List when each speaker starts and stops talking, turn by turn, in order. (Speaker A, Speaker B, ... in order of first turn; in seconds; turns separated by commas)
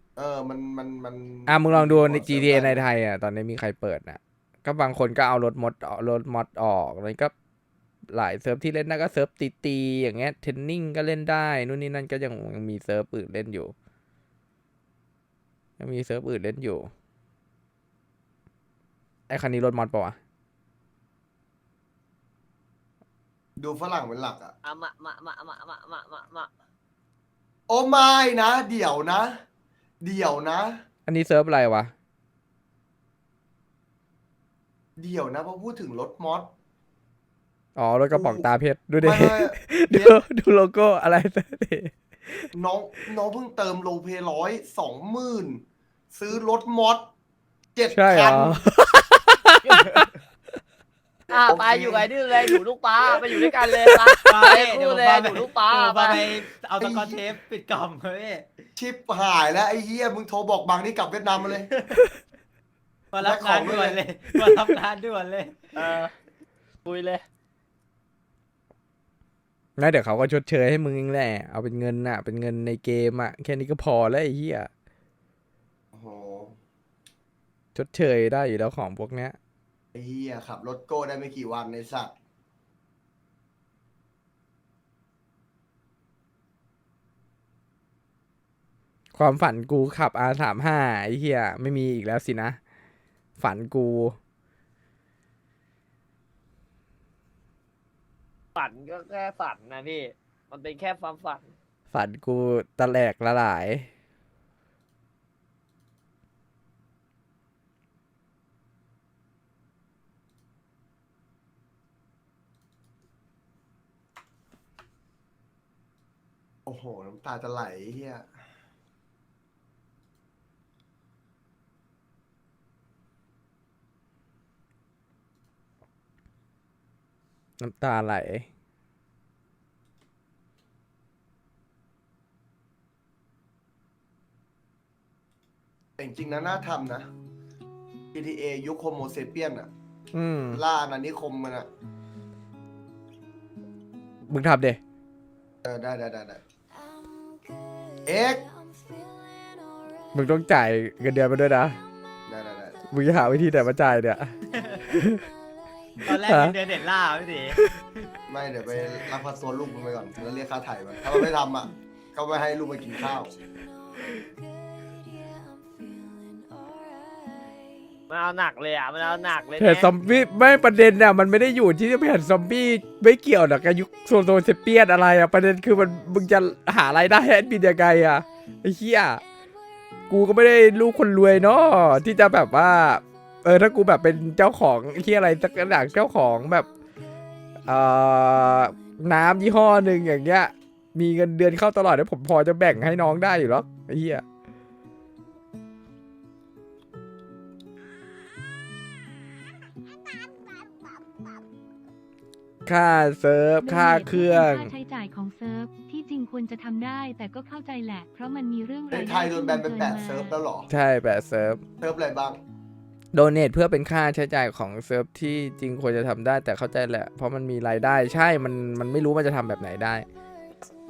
Speaker A: 0.2-2.8, Speaker B: 1.5-7.3, Speaker B: 8.1-13.7, Speaker B: 15.8-16.9, Speaker B: 19.3-20.2, Speaker A: 23.6-24.5, Speaker C: 24.6-26.5, Speaker A: 27.7-29.4, Speaker A: 30.0-30.8, Speaker B: 31.1-31.9, Speaker A: 35.0-36.5, Speaker B: 37.8-42.5, Speaker A: 38.1-38.5, Speaker A: 39.0-40.2, Speaker A: 42.5-47.1, Speaker A: 47.8-48.6, Speaker B: 48.0-50.1, Speaker C: 49.6-50.0, Speaker C: 51.3-56.2, Speaker A: 51.5-52.1, Speaker B: 53.3-54.3, Speaker D: 54.3-58.5, Speaker A: 56.8-57.2, Speaker A: 58.8-61.7, Speaker D: 61.7-62.0, Speaker D: 63.1-65.7, Speaker A: 63.2-64.0, Speaker C: 65.8-66.1, Speaker C: 66.9-67.2, Speaker B: 69.8-74.7, Speaker A: 75.9-76.6, Speaker B: 77.8-79.4, Speaker A: 79.9-82.1, Speaker B: 89.2-92.6, Speaker B: 93.4-94.2, Speaker C: 98.6-101.5, Speaker B: 101.9-103.9, Speaker A: 116.7-118.3, Speaker B: 127.6-128.5, Speaker A: 136.0-137.1, Speaker A: 138.1-139.7, Speaker B: 140.1-140.6, Speaker A: 140.5-141.7, Speaker B: 144.3-144.8, Speaker A: 145.6-146.4, Speaker A: 148.1-148.4, Speaker B: 150.1-151.8, Speaker A: 152.3-152.8, Speaker B: 152.9-154.3, Speaker D: 154.5-154.8, Speaker B: 154.9-155.2, Speaker D: 156.1-157.6, Speaker B: 156.2-156.6, Speaker A: 158.3-163.3, Speaker C: 168.1-169.9, Speaker B: 169.6-179.2, Speaker B: 180.1-186.7, Speaker B: 187.7-194.2, Speaker B: 202.7-204.7, Speaker E: 203.6-210.3, Speaker A: 208.9-210.7, Speaker B: 210.7-211.6, Speaker A: 211.8-212.4, Speaker B: 213.1-220.1